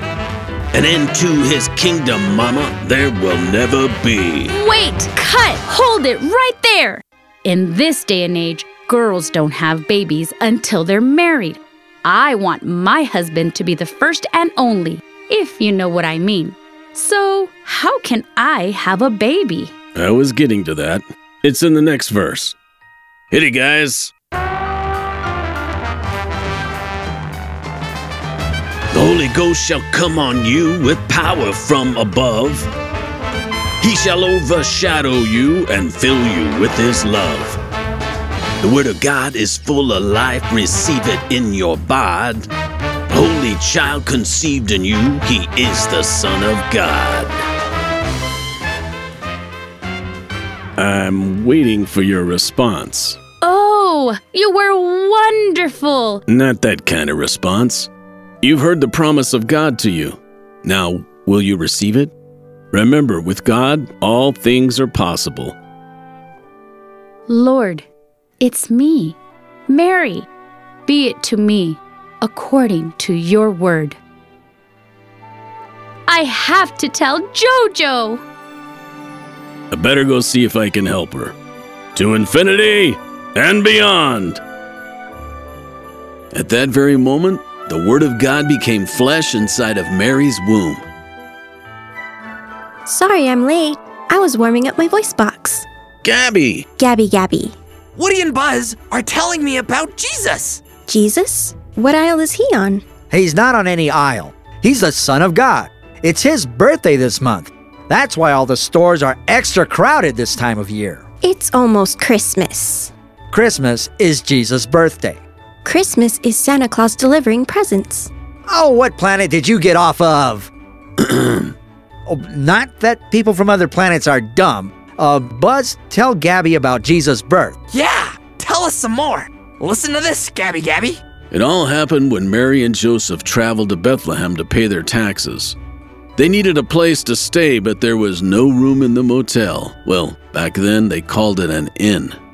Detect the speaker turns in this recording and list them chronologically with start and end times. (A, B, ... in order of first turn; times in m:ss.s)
0:00.7-0:04.5 A
0:04.5-0:19.7 B
0:19.9-0:22.6 A
0:23.3-0:24.1 A
0:28.9-0:32.7 A
0:33.8-0:37.6 A
0:38.6-0:42.5 A
0:43.1-0:47.4 A
0:50.8-0:53.2 A
0:53.4-0:56.2 B
0:56.3-0:57.9 A
0:58.4-1:02.1 A
1:02.7-1:05.6 A
1:07.3-1:07.8 B
1:08.4-1:09.2 B
1:09.7-1:10.3 B
1:10.8-1:14.0 B
1:16.1-1:18.2 B
1:19.7-1:21.3 A
1:21.9-1:24.4 A
1:26.3-1:30.8 A
1:32.8-1:35.6 C
1:36.0-1:36.6 A
1:36.8-1:37.6 C
1:38.0-1:40.6 D
1:40.8-1:42.8 C
1:43.1-1:51.0 E
1:51.2-1:52.9 C
1:53.3-1:55.2 E
1:55.6-1:58.1 C
1:58.5-2:00.5 E
2:01.0-2:01.5 A
2:02.0-2:07.6 E
2:07.7-2:11.0 D
2:11.3-2:15.6 A
2:16.2-2:22.2 A